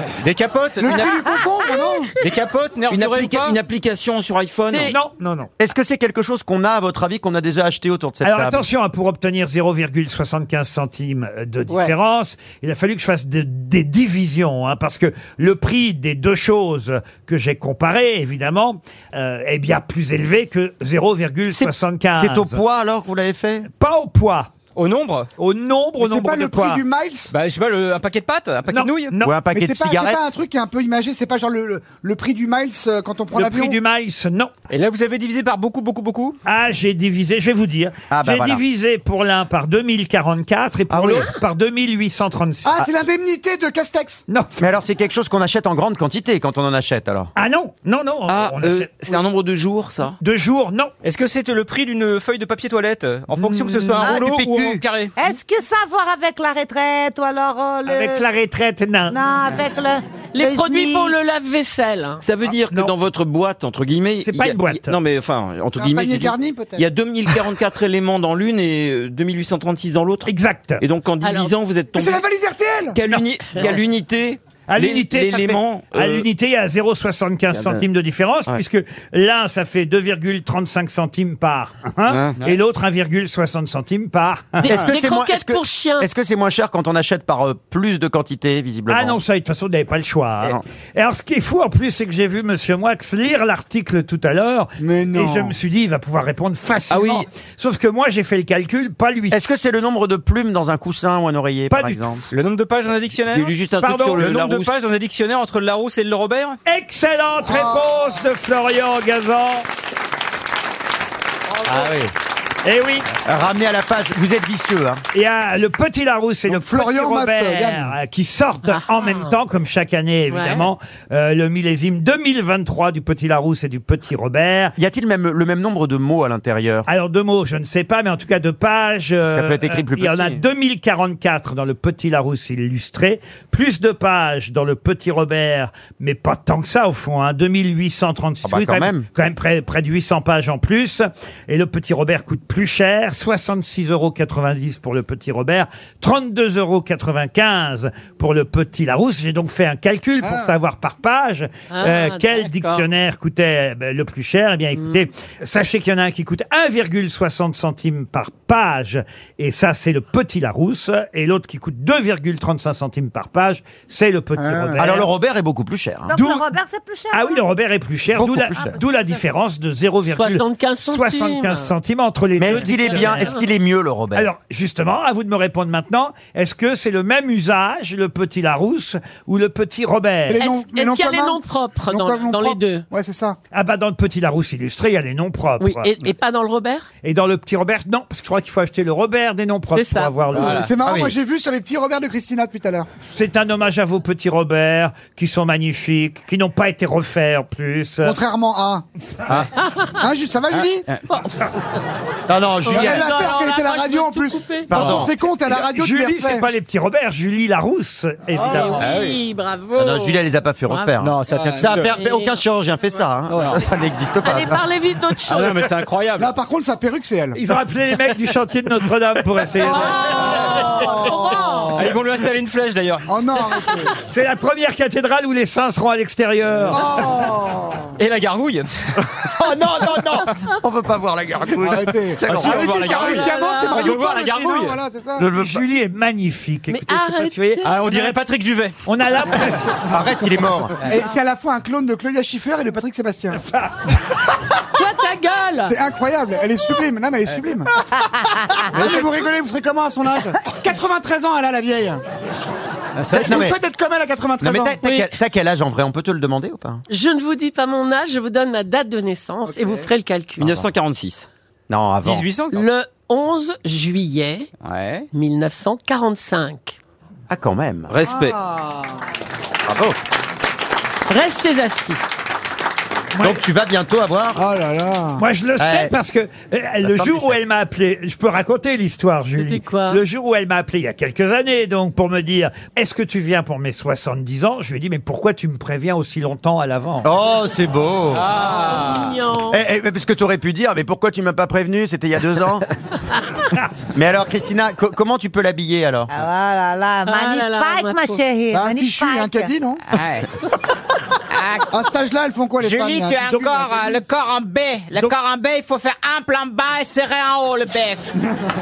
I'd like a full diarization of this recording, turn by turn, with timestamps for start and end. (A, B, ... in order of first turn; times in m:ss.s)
0:00.2-0:01.1 A
0:00.8-0:02.1 B
0:02.2-0:03.6 A
0:02.9-0:05.0 C
0:04.7-0:05.0 D
0:04.8-0:05.5 E
0:05.6-0:08.6 F
0:08.2-0:22.6 E
0:22.1-0:23.7 F
0:23.7-0:24.5 E
0:24.8-0:25.3 A
0:25.4-0:26.8 E
0:26.0-0:27.3 B
0:27.3-0:29.1 A
0:28.7-0:29.4 E
0:29.2-0:30.2 F
0:29.5-0:33.8 B
0:33.3-0:34.5 E
0:34.7-0:36.4 A
0:36.4-0:42.9 E
0:38.1-0:38.6 F
0:40.9-0:41.3 F
0:42.6-0:44.2 B
0:44.3-0:44.6 E
0:44.6-0:47.3 F
0:47.4-0:49.2 E
0:48.3-0:50.2 C
0:50.2-0:50.9 E
0:51.0-0:55.1 A
0:54.0-0:54.8 F
0:55.2-0:58.3 G
0:57.8-0:59.2 E
0:59.1-1:01.1 G
1:00.3-1:02.2 D
1:02.2-1:12.2 C
1:04.2-1:05.0 E
1:05.7-1:06.9 B
1:10.2-1:10.8 E
1:11.2-1:11.5 D
1:11.9-1:13.0 B
1:12.9-1:16.3 C
1:13.1-1:13.7 E
1:14.7-1:24.8 E
1:17.5-1:17.8 C
1:22.1-1:22.4 C
1:24.6-1:26.1 D
1:24.6-1:29.2 F
1:28.9-1:39.4 E
1:34.8-1:35.6 B
1:36.9-1:37.3 C
1:39.3-1:42.2 F
1:41.7-1:42.2 E
1:42.3-1:43.6 A
1:43.3-1:44.7 C
1:43.8-1:44.3 E
1:44.1-1:46.6 A
1:46.6-1:49.6 E
1:47.4-1:48.0 B
1:51.7-1:51.9 E
1:52.6-1:53.1 E
1:53.2-1:55.0 F
1:55.1-2:04.7 E
1:56.5-1:57.9 B
1:58.6-1:59.3 D
2:00.3-2:00.7 D
2:04.8-2:06.9 F
2:06.9-2:45.1 E
2:09.3-2:10.4 F
2:18.4-2:19.1 F
2:30.2-2:30.5 B
2:31.7-2:32.8 D
2:44.4-2:44.9 B
2:44.8-2:46.1 F
2:46.1-2:47.4 G
2:46.1-2:46.5 E
2:47.1-2:53.4 E
2:48.1-2:48.8 F
2:48.5-2:49.2 G
2:50.1-2:51.7 D
2:52.4-2:54.3 F
2:52.5-2:53.4 D
2:54.1-3:00.4 E
3:00.2-3:03.4 B
3:00.4-3:02.8 D
3:03.5-3:05.9 E
3:05.6-3:06.9 D
3:07.0-3:10.6 E
3:09.7-3:10.1 D
3:10.3-3:10.7 A
3:10.3-3:12.9 B
3:10.8-3:11.1 F
3:13.1-3:18.2 E
3:18.0-3:18.8 B
3:20.0-3:20.9 B
3:20.5-3:21.0 A
3:21.1-3:21.4 D
3:22.3-3:23.1 F
3:22.6-3:24.7 D
3:22.6-3:26.5 B
3:24.7-3:25.1 F
3:24.7-3:25.1 A
3:25.5-3:28.8 E
3:28.3-3:28.8 B
3:28.5-3:30.9 D
3:28.8-3:29.2 A
3:29.8-3:34.6 F
3:31.0-3:32.0 A
3:31.3-3:31.8 B
3:31.9-3:32.4 D
3:34.2-3:35.7 D
3:35.3-3:36.3 A
3:36.2-3:37.5 B
3:37.3-3:40.8 E
3:39.6-3:42.0 B
3:39.6-3:41.8 D
3:41.8-3:43.1 A
3:43.0-3:44.0 B
3:44.1-3:47.1 E
3:46.7-3:48.0 B
3:48.0-3:49.0 A
3:49.2-3:52.8 F
3:51.6-3:55.3 B
3:52.2-3:54.8 A
3:53.0-3:54.0 D
3:55.2-3:55.6 F
3:55.3-3:58.2 E
3:56.7-3:57.7 D
3:57.6-3:58.8 A
3:58.8-3:59.8 E
3:59.3-4:00.1 B
3:59.9-4:00.7 F
4:00.8-4:03.4 B
4:04.7-4:05.7 D
4:05.6-4:07.7 B
4:08.6-4:12.0 B
4:13.0-4:13.4 A
4:13.1-4:14.8 B
4:13.1-4:13.6 F
4:14.4-4:16.8 F
4:14.8-4:15.1 D
4:16.9-4:20.6 D
4:19.5-4:19.8 B
4:20.4-4:21.3 C
4:21.7-4:22.2 F
4:22.0-4:22.6 A
4:22.5-4:24.5 D
4:24.6-4:25.1 A
4:25.1-4:26.8 D
4:27.3-4:27.9 F
4:27.9-4:28.4 C
4:28.0-4:29.0 B
4:29.6-4:30.0 F
4:31.1-4:32.0 D
4:33.1-4:33.4 E
4:33.2-4:34.4 F
4:34.3-4:35.2 B
4:35.2-4:47.1 E
4:35.6-4:35.9 F
4:36.8-4:37.4 F
4:39.4-4:40.0 D
4:47.0-4:48.3 F
4:48.1-4:49.1 A
4:48.3-4:49.6 D
4:49.5-4:52.6 F
4:53.9-4:56.1 F
4:56.1-4:59.5 G
4:57.0-4:58.2 D
4:58.5-4:59.8 B
4:59.9-5:00.3 H
5:01.3-5:01.7 H
5:01.7-5:03.3 B
5:02.6-5:08.1 H
5:03.3-5:04.0 E